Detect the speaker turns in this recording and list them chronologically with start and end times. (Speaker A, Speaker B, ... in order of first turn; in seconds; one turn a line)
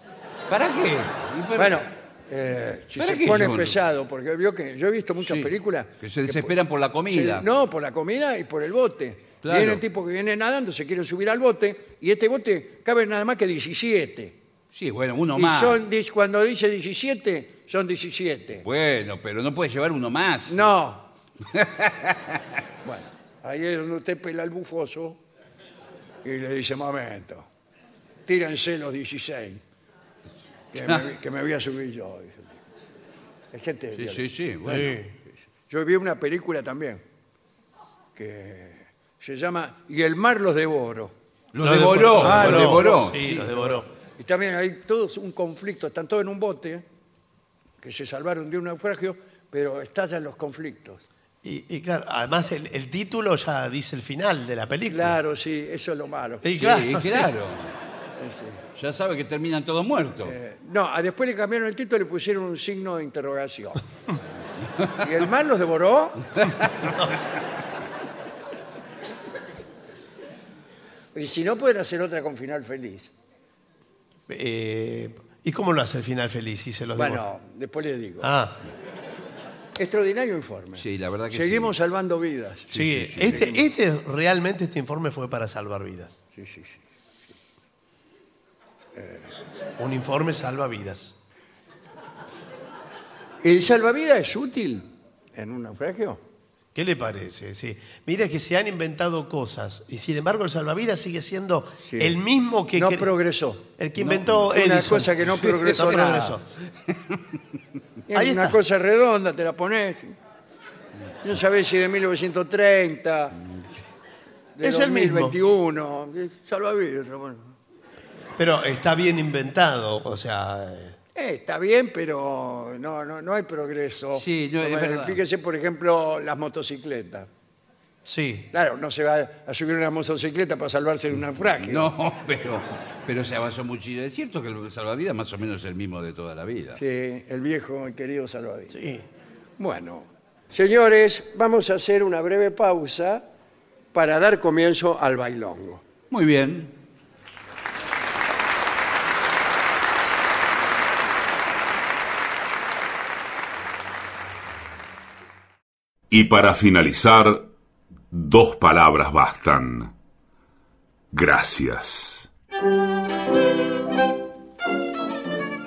Speaker A: 0.5-1.8
Speaker B: 1.6-6.5
Speaker A: 3.0-3.8
Speaker A: 5.2-7.5
Speaker B: 7.1-14.4
Speaker A: 9.4-9.8
Speaker A: 14.7-15.8
Speaker B: 15.3-18.6
Speaker A: 18.6-20.7
Speaker B: 20.5-21.1
Speaker A: 21.5-22.4
Speaker B: 22.8-25.2
Speaker B: 26.2-27.5
Speaker B: 28.3-29.6
Speaker B: 30.7-32.6
Speaker B: 33.5-34.3
Speaker A: 34.0-35.0
Speaker C: 34.7-35.1
Speaker B: 35.7-37.0
Speaker B: 38.2-41.1
Speaker A: 41.5-43.5
Speaker C: 41.6-43.9
Speaker B: 42.2-43.1
Speaker B: 43.6-46.9
Speaker B: 47.8-51.0
Speaker C: 51.4-55.2
Speaker B: 54.9-56.5
Speaker C: 56.4-57.3
Speaker A: 56.6-57.8
Speaker B: 58.2-58.6
Speaker A: 58.8-60.4
Speaker B: 60.2-63.9
Speaker B: 65.0-66.5
Speaker B: 71.2-73.1
Speaker C: 74.3-77.2
Speaker B: 77.0-78.3
Speaker C: 78.2-78.5
Speaker B: 79.8-82.7
Speaker A: 80.8-81.7
Speaker A: 82.7-83.6
Speaker C: 82.7-86.2
Speaker B: 83.2-83.6
Speaker B: 86.3-86.8
Speaker B: 89.0-89.3
Speaker C: 89.8-91.1
Speaker B: 93.4-96.2
Speaker C: 96.8-103.1
Speaker B: 101.9-102.2
Speaker B: 102.8-103.7
Speaker C: 103.8-105.2
Speaker B: 104.2-106.4
Speaker A: 105.4-105.7
Speaker C: 105.7-106.4
Speaker A: 106.9-107.2
Speaker B: 108.1-110.2
Speaker C: 108.1-108.6
Speaker B: 111.2-113.4
Speaker B: 114.6-117.6
Speaker C: 114.6-115.4
Speaker C: 118.4-121.0
Speaker B: 121.2-127.3
Speaker A: 124.1-125.2
Speaker C: 128.1-128.5
Speaker B: 128.5-131.9
Speaker A: 131.6-136.8
Speaker B: 136.8-138.8
Speaker C: 138.8-139.0
Speaker B: 139.6-143.2
Speaker B: 143.9-145.8
Speaker A: 146.1-146.8
Speaker D: 156.1-157.5
Speaker D: 158.1-159.9
Speaker D: 161.1-162.3